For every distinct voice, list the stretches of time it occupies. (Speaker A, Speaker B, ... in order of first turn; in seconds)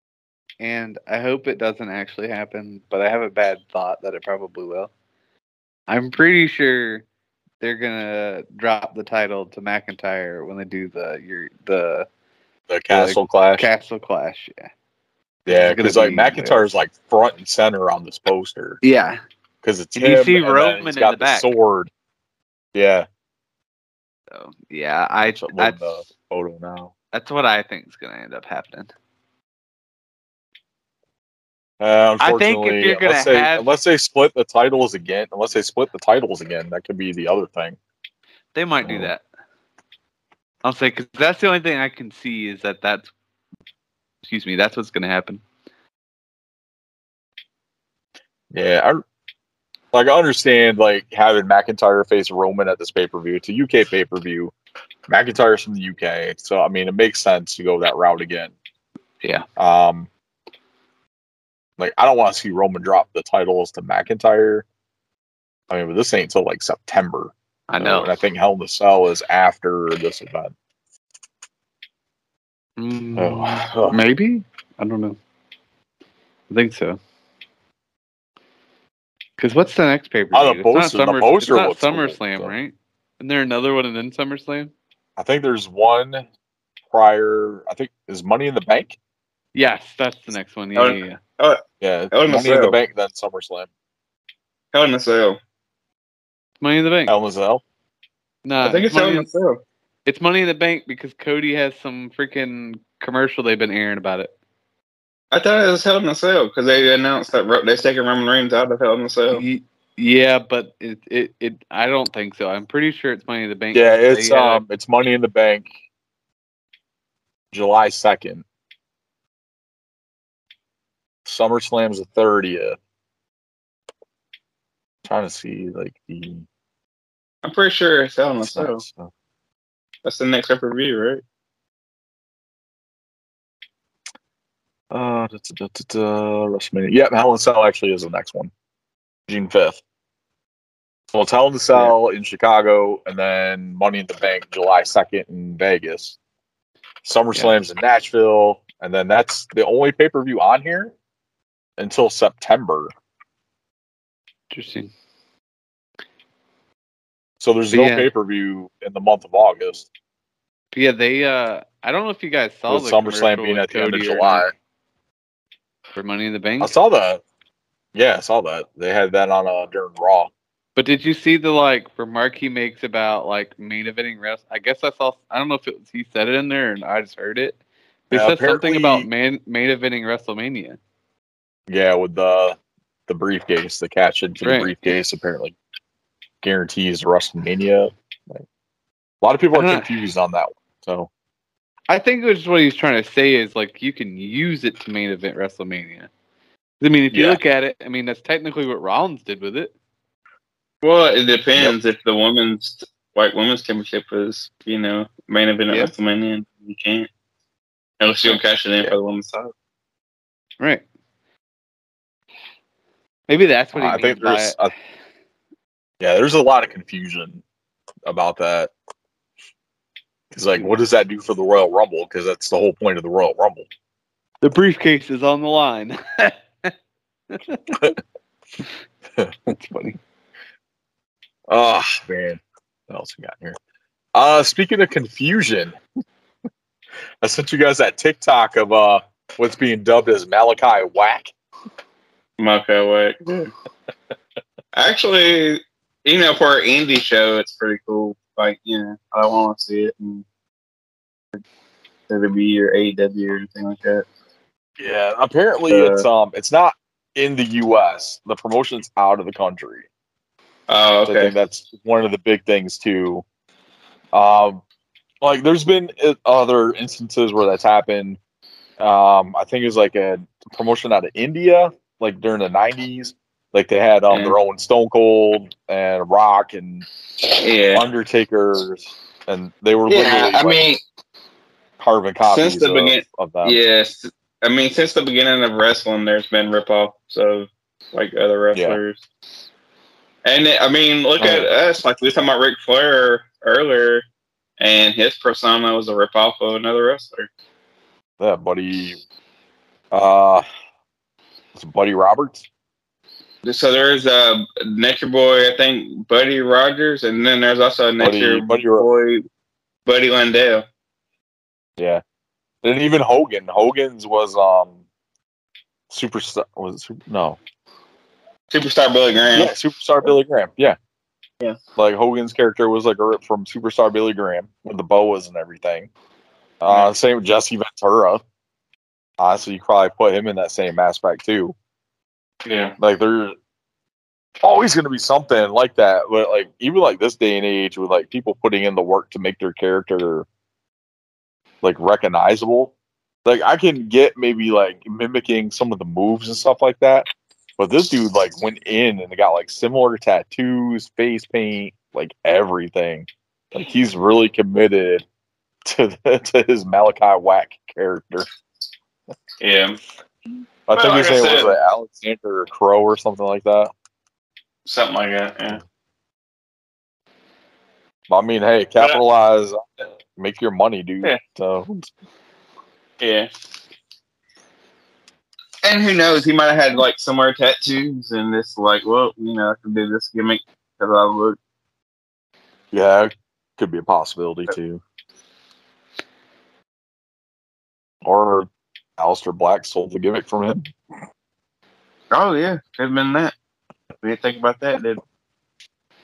Speaker A: 0.6-4.9, 5.9-7.0, 7.6-12.1, 12.9-14.7, 15.5-16.7, 18.8-19.2, 20.0-21.5, 24.3-25.9, 27.1-28.9, 32.2-33.7, 38.5-39.2, 40.6-43.1, 44.2-45.4, 67.7-68.1, 72.8-75.2, 76.5-77.0, 79.4-84.7, 89.5-91.2, 96.6-97.2, 98.5-99.3, 100.1-104.3, 109.3-114.6, 154.5-154.9, 157.7-158.1, 160.7-164.5, 166.0-166.8, 170.8-177.6, 178.1-180.8, 184.4-184.9, 189.5-189.9, 191.9-196.1, 196.8-199.7, 213.3-214.6, 224.4-226.7, 227.3-227.9, 229.5-230.0
Speaker B: 12.7-13.7, 15.5-18.8, 19.6-21.9, 22.8-23.1, 25.3-26.9, 31.8-37.8, 38.8-39.1, 48.5-49.0, 49.9-54.5, 55.1-58.5, 59.6-60.1, 61.8-64.7, 65.7-70.5, 73.2-74.1, 80.3-82.5, 85.2-86.3, 86.9-89.0, 91.8-93.7, 97.1-97.6, 113.7-115.7, 117.5-118.5, 121.2-122.8, 125.0-126.5, 128.4-129.1, 134.9-138.5, 139.3-139.8, 141.1-146.2, 147.0-150.9, 151.8-152.9, 157.4-159.9, 162.7-164.5, 166.6-167.2, 167.9-170.3, 178.1-179.1, 181.7-185.6, 186.4-188.4, 189.2-191.1, 197.1-197.4, 213.7-214.7, 216.0-217.4, 218.1-218.7, 220.3-223.7, 231.5-233.6, 234.2-235.8, 237.2-241.3, 254.8-259.9, 261.1-263.2, 264.1-264.6, 265.2-268.2, 268.8-276.9, 277.7-280.6, 281.8-283.6, 288.5-288.8, 291.2-291.5, 298.2-299.0, 299.9-300.5, 301.6-302.4, 308.0-308.9, 311.8-312.0, 312.6-314.8, 315.9-317.4, 319.3-320.8, 321.8-325.9, 326.6-328.2, 329.2-331.6, 332.8-333.4, 334.4-340.3, 341.6-342.7, 343.2-347.1, 347.6-355.1, 355.6-358.3, 360.7-363.7, 368.1-371.9, 382.7-384.8, 388.0-390.7
Speaker C: 90.8-91.6, 92.1-92.8, 94.7-95.4, 98.6-99.6, 105.3-109.4, 127.4-128.8, 130.1-131.2, 200.8-207.1, 208.0-209.5, 242.4-243.5, 244.8-250.2, 252.1-254.1, 255.7-256.1, 260.7-261.3, 274.1-274.4, 277.3-277.8, 279.9-280.8, 282.3-289.0, 290.2-294.1, 294.6-297.3, 303.4-309.2, 309.9-310.6, 318.5-319.5, 332.4-332.8, 359.4-359.8, 360.8-361.5, 364.7-365.6, 373.0-373.3, 375.6-381.4, 392.1-393.3, 394.0-395.0